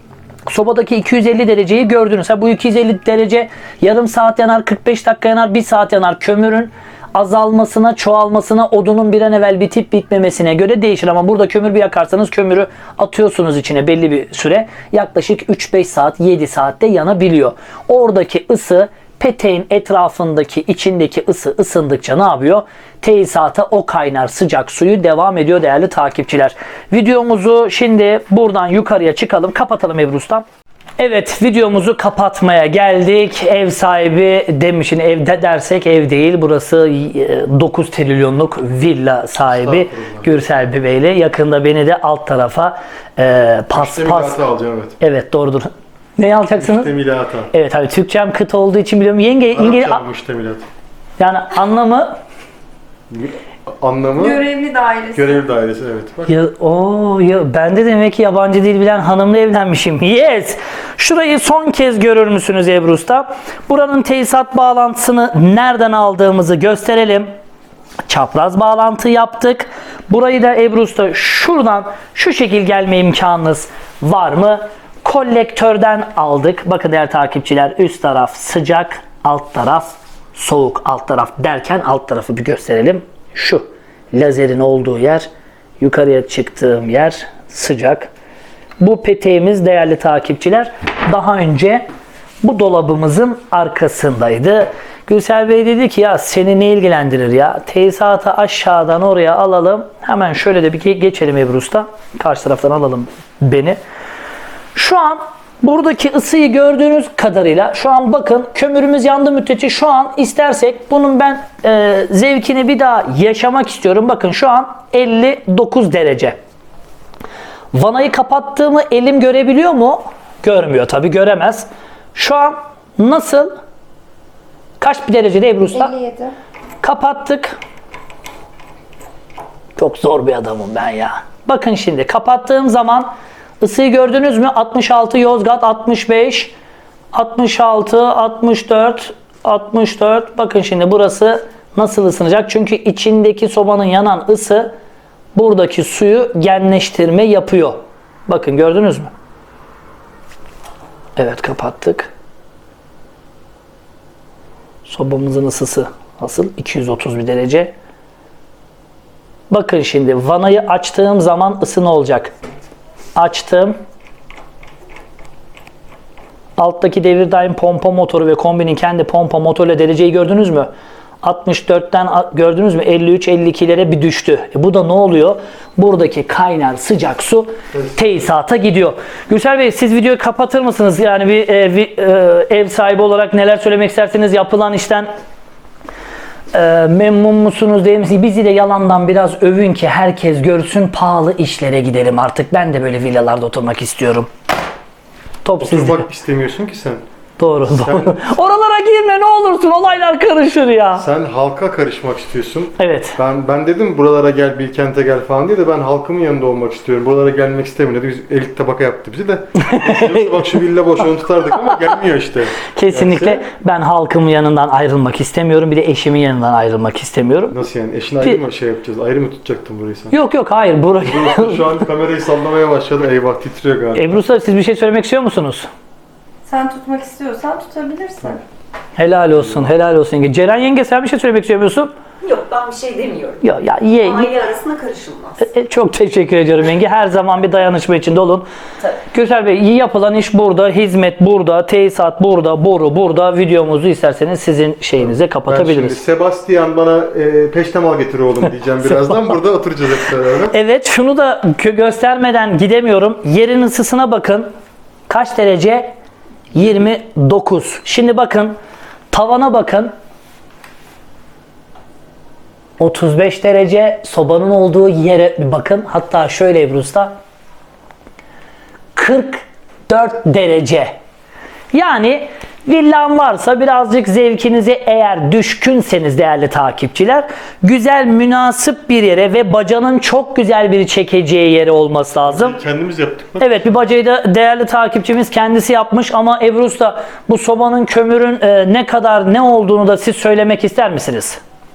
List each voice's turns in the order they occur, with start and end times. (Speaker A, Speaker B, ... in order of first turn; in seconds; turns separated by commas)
Speaker A: 0.5-30.4, Speaker A: 31.0-44.4, Speaker B: 39.4-40.7, Speaker B: 43.7-45.0, Speaker A: 45.0-46.9, Speaker B: 46.5-47.5, Speaker A: 47.5-50.0, Speaker B: 49.5-50.6, Speaker A: 51.2-52.2, Speaker B: 53.1-54.4, Speaker C: 54.1-55.4, Speaker B: 55.1-56.4, Speaker A: 56.3-67.3, Speaker A: 68.1-85.3, Speaker A: 85.8-88.1, Speaker A: 88.8-91.9, Speaker A: 92.4-103.8, Speaker A: 104.7-116.4, Speaker A: 117.7-123.5, Speaker A: 124.8-125.9, Speaker C: 125.7-126.3, Speaker A: 126.8-127.6, Speaker A: 129.8-136.5, Speaker A: 137.1-144.7, Speaker A: 145.3-149.1, Speaker A: 151.2-152.1, Speaker A: 154.8-157.7, Speaker A: 159.5-162.3, Speaker A: 163.2-163.8, Speaker A: 166.6-170.7, Speaker A: 171.2-185.1, Speaker A: 186.5-194.3, Speaker A: 195.4-196.0, Speaker B: 195.6-197.0, Speaker A: 197.4-201.1, Speaker B: 197.7-198.3, Speaker B: 200.9-213.4, Speaker A: 202.8-203.2, Speaker A: 209.6-210.3, Speaker A: 212.7-217.6, Speaker B: 217.5-220.2, Speaker A: 220.1-221.7, Speaker B: 221.0-224.2, Speaker A: 223.9-225.7, Speaker C: 226.4-228.4, Speaker A: 229.0-231.9, Speaker B: 229.4-229.7, Speaker D: 232.3-233.3, Speaker A: 233.4-234.5, Speaker D: 234.4-235.3, Speaker A: 235.4-238.5, Speaker A: 239.1-246.0, Speaker B: 245.0-250.5, Speaker A: 250.5-254.5, Speaker A: 255.1-255.9, Speaker A: 256.5-258.6, Speaker A: 259.1-259.9, Speaker A: 262.8-267.2, Speaker A: 268.9-270.9, Speaker A: 271.7-282.6, Speaker B: 282.2-283.5, Speaker A: 283.4-291.4